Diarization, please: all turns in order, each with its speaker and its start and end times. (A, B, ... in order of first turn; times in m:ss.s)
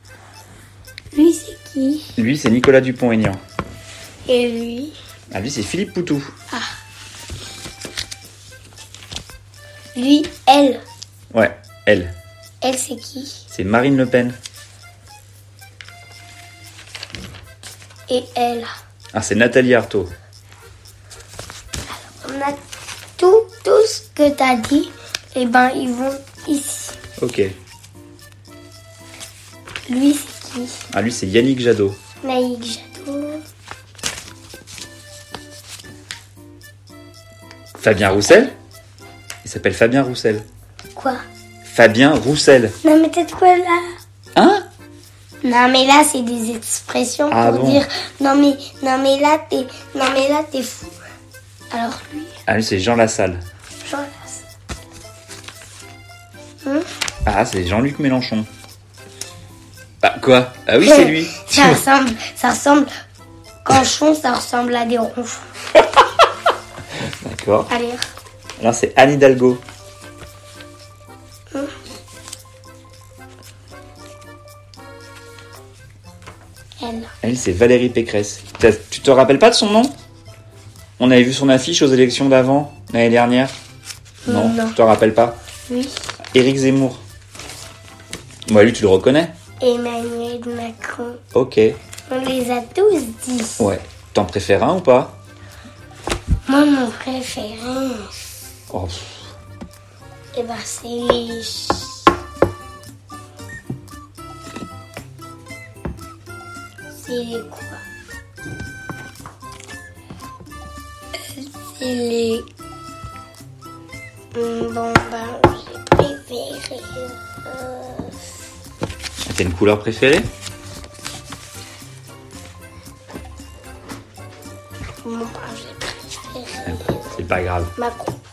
0:01.1-0:02.1 A
0:02.2-0:03.4 B
0:04.3-0:05.0 A
0:05.3-0:06.3 B
0:10.0-0:10.8 A
0:11.3-0:12.1 B
0:12.6-0:13.4 A
0:13.5-0:14.4 B
0:18.1-0:18.7 A
0:19.1-0:20.1 B
0:22.0-0:22.6 A
0:23.2-0:27.0 A
0:27.2-0:27.5 B
0:29.9-0:30.8 A
0:30.9-0:32.0 B
0:32.2-0:33.4 A
0:37.8-0:38.6 B
0:39.4-0:40.5 B
0:41.0-0:41.2 A
0:41.7-0:42.8 B
0:42.8-0:43.8 A
0:44.4-0:44.7 B
0:45.4-0:51.0 A
0:47.3-0:47.8 B
0:51.7-0:52.4 A
0:52.5-0:53.4 B
0:53.8-0:54.4 A
0:57.3-0:58.5 B
1:00.0-1:01.8 B
1:00.8-1:02.9 A
1:03.6-1:05.5 A
1:07.2-1:07.7 B
1:07.7-1:08.0 A
1:08.6-1:09.6 B
1:16.8-1:17.1 A
1:17.2-1:19.9 B
1:21.0-1:23.5 B
1:24.3-1:24.8 A
1:24.3-1:25.4 B
1:25.7-1:26.0 A
1:26.3-1:27.0 B
1:28.5-1:29.4 B
1:29.6-1:31.2 A
1:31.3-1:31.8 B
1:32.1-1:33.7 A
1:33.6-1:35.2 B
1:36.5-1:38.1 A
1:38.7-1:39.2 B
1:40.3-1:42.0 A
1:46.9-1:47.8 A
1:51.3-1:52.5 A
1:54.3-1:58.2 A
1:59.2-2:00.3 B
2:05.0-2:07.1 A
2:06.7-2:07.7 B
2:07.8-2:08.2 A